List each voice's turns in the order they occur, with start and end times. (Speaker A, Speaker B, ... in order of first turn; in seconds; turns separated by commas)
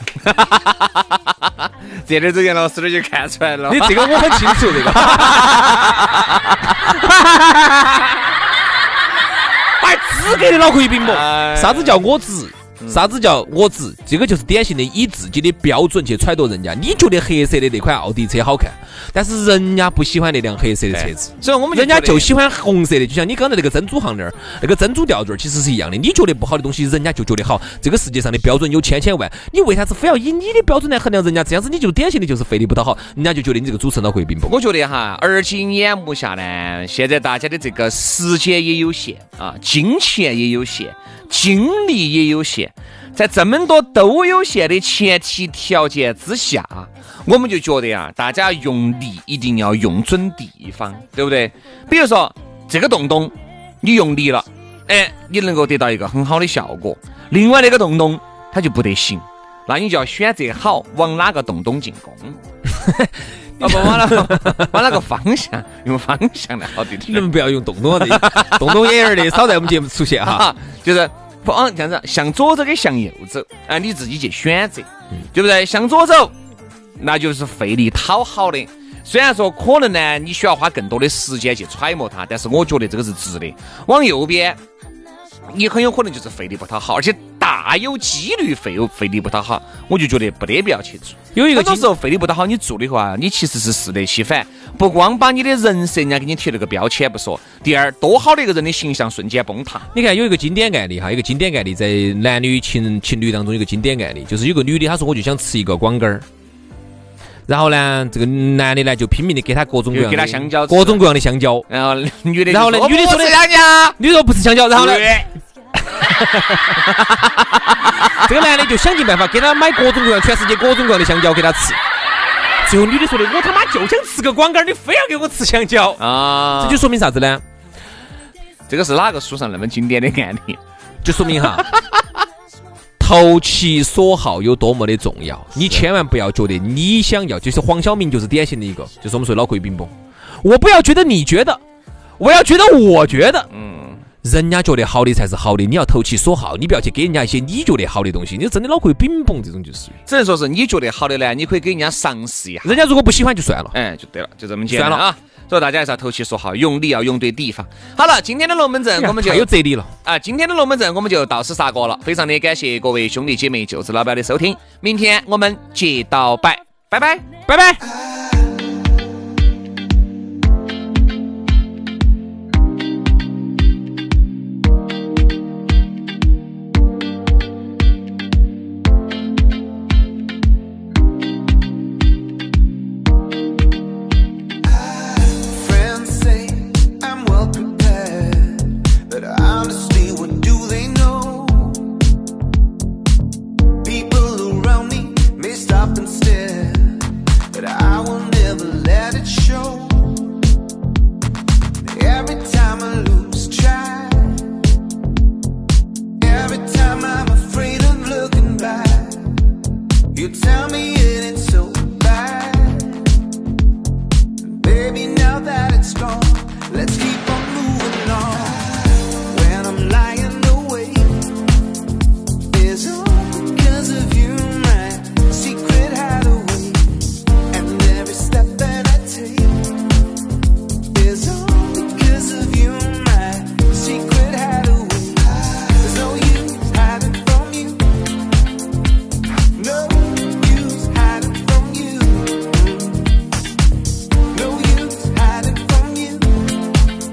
Speaker A: 0.2-7.0, Speaker B: 3.7-6.1, Speaker B: 6.8-8.2, Speaker B: 9.8-34.6, Speaker A: 11.0-12.0, Speaker A: 12.8-13.1, Speaker A: 20.9-22.4, Speaker A: 34.5-62.4, Speaker B: 63.6-64.7, Speaker A: 63.6-67.3, Speaker B: 67.1-70.5, Speaker A: 67.9-69.5, Speaker A: 70.2-76.3, Speaker A: 77.0-84.6, Speaker A: 85.5-99.9, Speaker B: 91.3-91.9, Speaker B: 99.9-106.2, Speaker B: 107.5-111.7, Speaker A: 109.9-111.0, Speaker A: 111.7-114.0, Speaker B: 112.5-113.4, Speaker B: 114.0-115.1, Speaker A: 114.7-115.3, Speaker B: 116.0-116.8, Speaker A: 117.0-117.5, Speaker B: 118.0-121.8, Speaker B: 122.6-126.0, Speaker A: 126.0-126.9, Speaker B: 126.6-127.4, Speaker A: 128.7-130.6, Speaker B: 131.0-131.7, Speaker A: 131.4-132.0, Speaker B: 133.0-141.6, Speaker B: 142.2-143.5, Speaker A: 143.5-144.0, Speaker B: 144.2-150.0, Speaker A: 150.1-152.8, Speaker B: 152.6-153.8, Speaker A: 153.7-159.5, Speaker B: 154.7-155.0, Speaker B: 159.0-159.9, Speaker A: 160.0-167.3, Speaker B: 167.5-167.8, Speaker C: 184.6-192.0, Speaker C: 193.8-200.4, Speaker C: 201.9-204.6, Speaker C: 206.2-209.4, Speaker C: 210.1-213.1, Speaker C: 214.4-221.4, Speaker C: 222.5-229.9, Speaker C: 230.9-238.1, Speaker C: 239.5-243.3, Speaker C: 244.3-246.6